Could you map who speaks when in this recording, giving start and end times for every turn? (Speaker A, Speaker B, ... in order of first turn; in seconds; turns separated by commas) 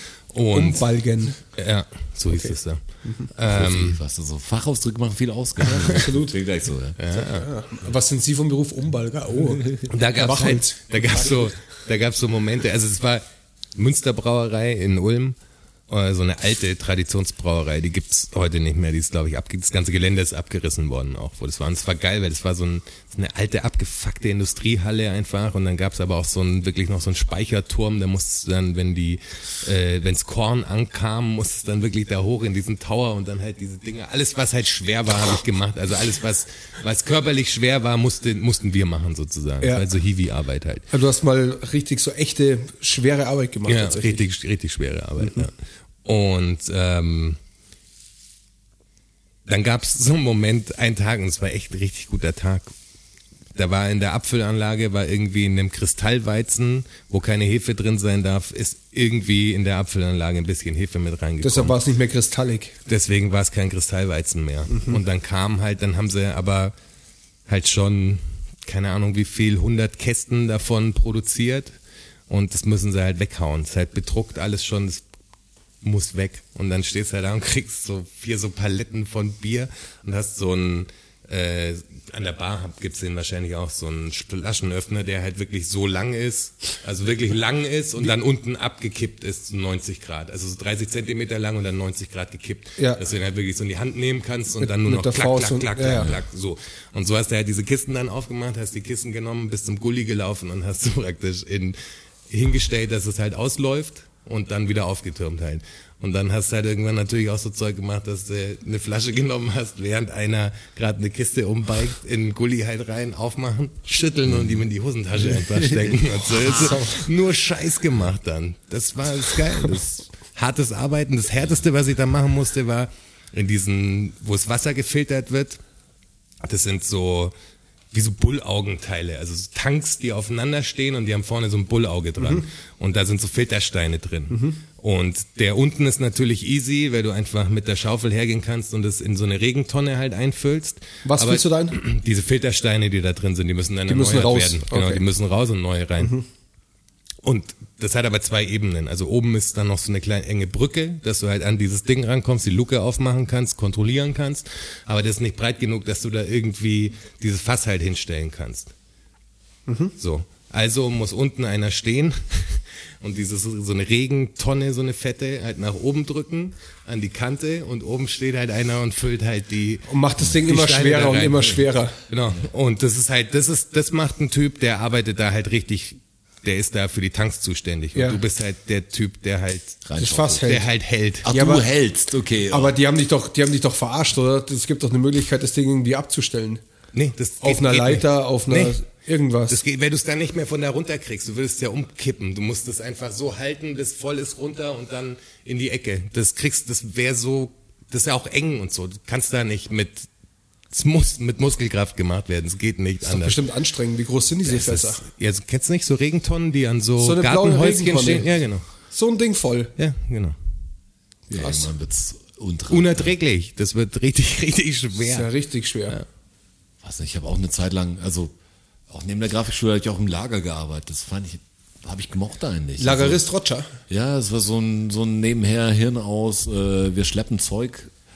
Speaker A: 0.3-0.9, Speaker B: 0.5-1.4, Speaker A: 1.5-2.8, Speaker A: 3.3-4.0, Speaker C: 3.5-7.0, Speaker B: 5.6-6.3, Speaker A: 7.0-7.5, Speaker B: 7.1-11.2, Speaker A: 9.9-13.2, Speaker A: 13.8-15.4, Speaker A: 15.9-40.9, Speaker B: 39.6-39.9, Speaker B: 40.9-44.2, Speaker A: 43.7-45.5, Speaker A: 46.0-47.4, Speaker A: 49.5-52.7, Speaker A: 53.5-61.8, Speaker B: 61.4-62.7, Speaker A: 62.9-66.7, Speaker B: 64.7-65.0, Speaker A: 67.5-71.7, Speaker A: 72.3-75.0, Speaker A: 75.8-101.8, Speaker B: 94.6-96.1, Speaker A: 102.3-125.6, Speaker C: 114.3-114.6, Speaker C: 115.3-116.0, Speaker B: 116.4-117.0, Speaker A: 126.4-127.3, Speaker A: 127.9-146.2, Speaker B: 132.2-132.4, Speaker B: 134.3-134.6, Speaker B: 141.1-141.8, Speaker B: 143.9-145.0, Speaker A: 147.2-158.7, Speaker B: 159.7-159.9, Speaker A: 160.0-179.8, Speaker B: 169.9-172.0, Speaker B: 177.9-178.2, Speaker C: 179.8-180.4, Speaker B: 180.0-180.7, Speaker A: 180.4-181.3, Speaker C: 181.2-182.8, Speaker B: 181.3-181.7, Speaker B: 182.5-186.6, Speaker A: 186.9-188.8, Speaker B: 187.4-189.6, Speaker A: 189.5-200.1, Speaker A: 200.7-203.4, Speaker B: 203.0-205.0, Speaker A: 204.4-208.6, Speaker B: 207.0-208.3, Speaker B: 208.9-209.7, Speaker A: 209.8-210.4, Speaker C: 211.3-213.1, Speaker B: 211.4-211.7, Speaker A: 212.7-215.3, Speaker B: 215.0-216.0, Speaker C: 216.8-218.3, Speaker C: 218.9-223.2, Speaker B: 222.8-223.7, Speaker C: 223.9-227.9